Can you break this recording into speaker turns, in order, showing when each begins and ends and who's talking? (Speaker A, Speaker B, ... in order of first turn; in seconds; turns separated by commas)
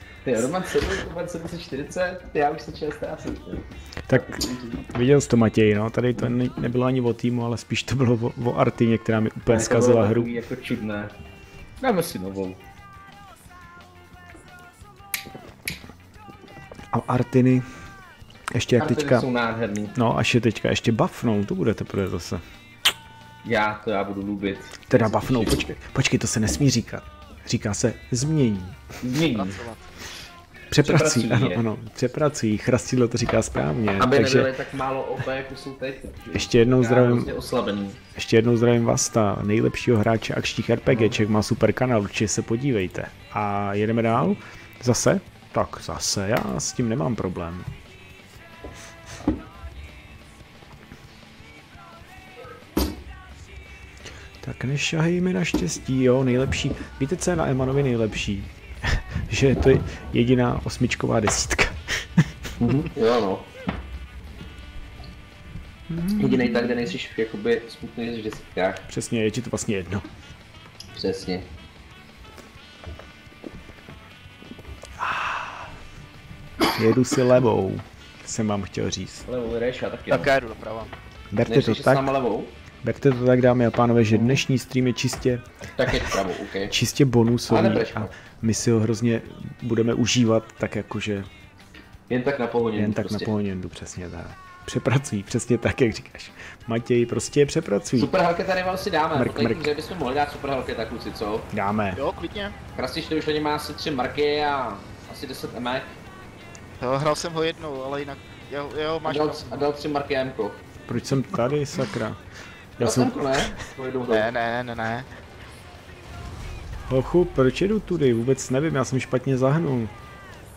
Speaker A: 0.2-4.8, Speaker B: 4.1-10.3, Speaker A: 9.5-11.1, Speaker A: 11.8-12.6, Speaker B: 16.9-17.8, Speaker B: 18.5-19.2, Speaker A: 18.8-20.0, Speaker B: 19.9-22.4, Speaker A: 23.4-25.6, Speaker B: 24.9-28.9, Speaker A: 29.0-29.6, Speaker C: 29.3-30.0, Speaker B: 30.7-34.5, Speaker A: 30.8-31.7, Speaker A: 34.0-38.0, Speaker B: 36.3-37.3, Speaker B: 38.1-47.7, Speaker B: 54.4-62.5, Speaker A: 62.6-63.5, Speaker B: 65.9-66.9, Speaker A: 66.2-68.9, Speaker B: 68.9-70.1, Speaker A: 70.9-71.5, Speaker B: 75.0-75.7, Speaker B: 76.7-79.3, Speaker A: 79.3-80.3, Speaker C: 80.1-80.9, Speaker B: 81.3-82.1, Speaker A: 81.5-82.5, Speaker B: 82.8-91.3, Speaker A: 84.1-84.4, Speaker A: 85.8-86.8, Speaker A: 87.5-88.1, Speaker A: 92.1-93.3, Speaker B: 92.8-98.1, Speaker A: 98.0-101.5, Speaker B: 99.1-99.7, Speaker B: 101.5-102.0, Speaker C: 102.0-102.6, Speaker A: 102.8-106.0, Speaker C: 106.8-109.7, Speaker A: 109.0-110.6, Speaker B: 110.9-112.2, Speaker B: 112.8-113.6, Speaker A: 112.8-114.3, Speaker C: 114.1-115.1, Speaker B: 116.9-119.9